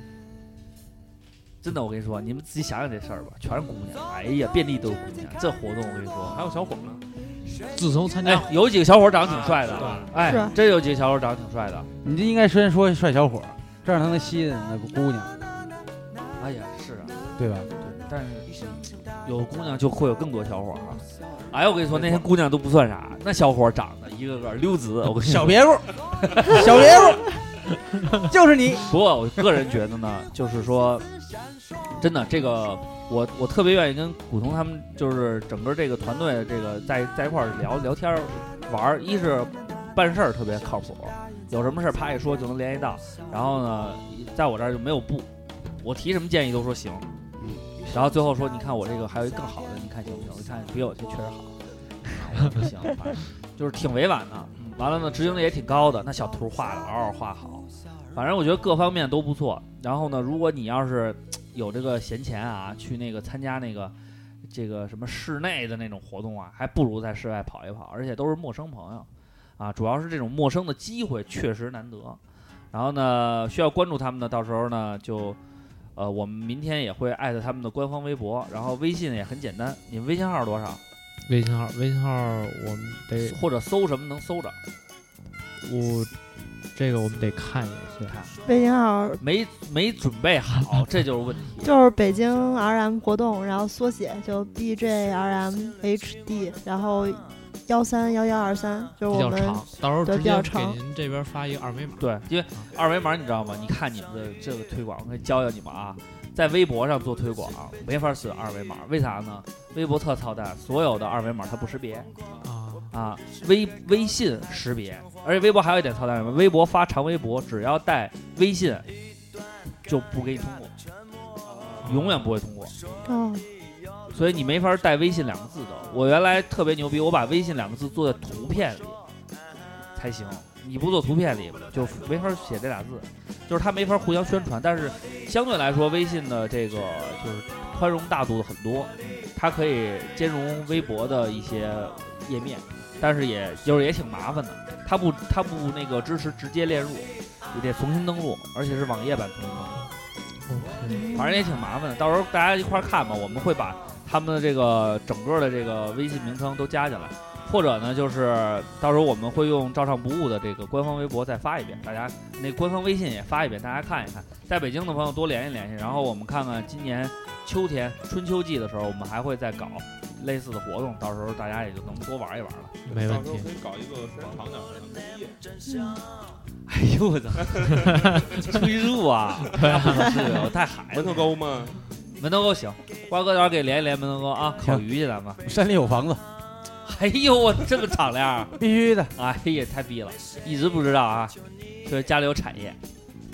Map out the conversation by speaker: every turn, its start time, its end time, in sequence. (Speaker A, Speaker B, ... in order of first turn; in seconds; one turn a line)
Speaker A: 1.6-6.4
Speaker B: 6.2-7.0
Speaker C: 7.7-8.5
Speaker A: 8.2-11.9
Speaker B: 9.2-10.1
Speaker D: 10.2-10.5
Speaker E: 12.0-15.4
Speaker A: 16.4-25.6
Speaker E: 17.4-17.7
Speaker E: 25.1-27.3
Speaker A: 26.3-27.1
Speaker E: 28.2-28.9
Speaker A: 28.9-31.1
Speaker A: 32.0-45.3
Speaker A: 45.8-47.1
Speaker E: 47.4-47.6
Speaker A: 47.9-63.9
Speaker A: 64.5-72.2
Speaker A: 72.7-75.4
Speaker A: 76.0-80.8
Speaker C: 81.2-83.4
Speaker A: 83.2-84.6
Speaker C: 85.6-86.1
Speaker C: 86.7-88.1
Speaker A: 88.0-88.4
Speaker D: 88.5-89.2
Speaker A: 89.2-91.7
Speaker D: 91.6-100.8
Speaker C: 99.1-102.7
Speaker A: 102.0-112.1
Speaker C: 112.4-112.9
Speaker A: 112.9-118.9
Speaker A: 119.8-120.8
Speaker B: 121.4-122.1
Speaker A: 121.8-122.7
Speaker D: 123.1-123.4
Speaker A: 124.1-129.0
Speaker A: 129.9-149.8
Speaker C: 150.5-151.0
Speaker D: 150.9-151.5
Speaker A: 151.1-172.8
Speaker C: 172.9-173.5
Speaker B: 172.9-175.4
Speaker D: 175.7-176.0
Speaker A: 176.7-181.3
Speaker B: 177.6-178.6
Speaker C: 177.8-178.1
Speaker C: 179.5-180.2
Speaker B: 180.9-181.8
Speaker A: 182.2-185.4
Speaker E: 184.6-184.8
Speaker E: 185.4-186.2
Speaker A: 186.8-188.6
Speaker E: 188.6-189.1
Speaker A: 189.1-192.8